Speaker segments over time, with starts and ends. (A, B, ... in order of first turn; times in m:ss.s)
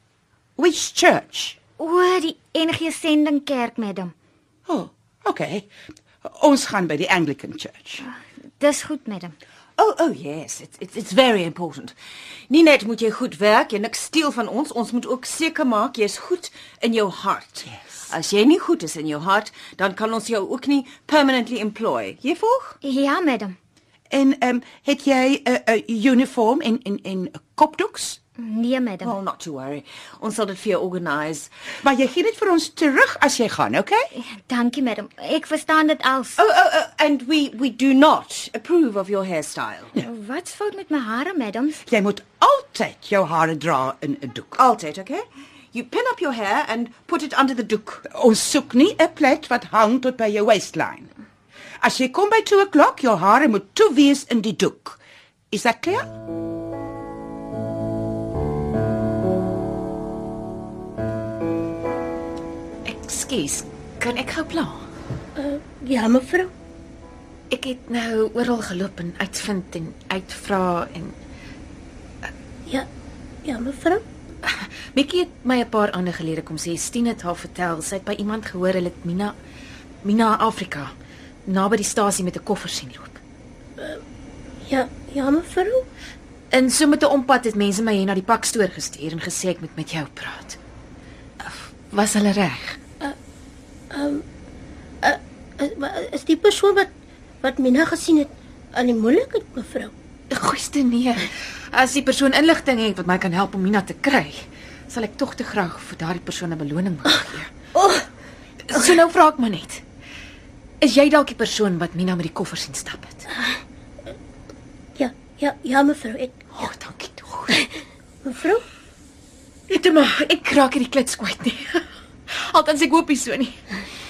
0:00.6-0:01.6 A
0:01.8-0:04.1 B
0:04.7-0:05.7 A
0:06.2-0:08.0 A
0:08.0-0:09.4 B
0:09.8-0:11.9 C
0:12.5-0:22.8 C
0:22.8-0:23.6 B
0:24.1-0:28.2 A
0:28.4-0:29.1 B
0:29.0-0:31.5 C
0:31.8-0:34.0 A
0:34.1-0:36.4 B
0:36.4-0:39.9 C
0:40.0-0:41.8 B
0:41.9-0:44.6 A
0:44.6-0:48.0 C
0:48.1-0:51.1 A
0:51.8-0:55.0 A
0:55.5-0:56.0 A
1:02.8-1:04.8 D
1:05.4-1:06.5 E
1:07.5-1:11.2 D
1:13.4-1:14.0 E
1:14.4-1:19.4 D
1:20.0-1:20.9 D
1:21.4-1:23.2 D
1:24.6-1:25.8 E
1:26.5-1:30.6 D
1:31.4-1:32.8 D
1:33.9-1:34.2 E
1:35.0-1:36.9 E
1:37.4-1:39.9 E
1:40.3-1:47.5 D
1:47.8-1:48.0 E
1:48.6-1:49.8 D
1:50.8-1:53.3 D
1:55.0-1:56.3 E
1:56.5-1:57.6 D
1:58.2-1:58.6 E
1:59.7-2:03.6 D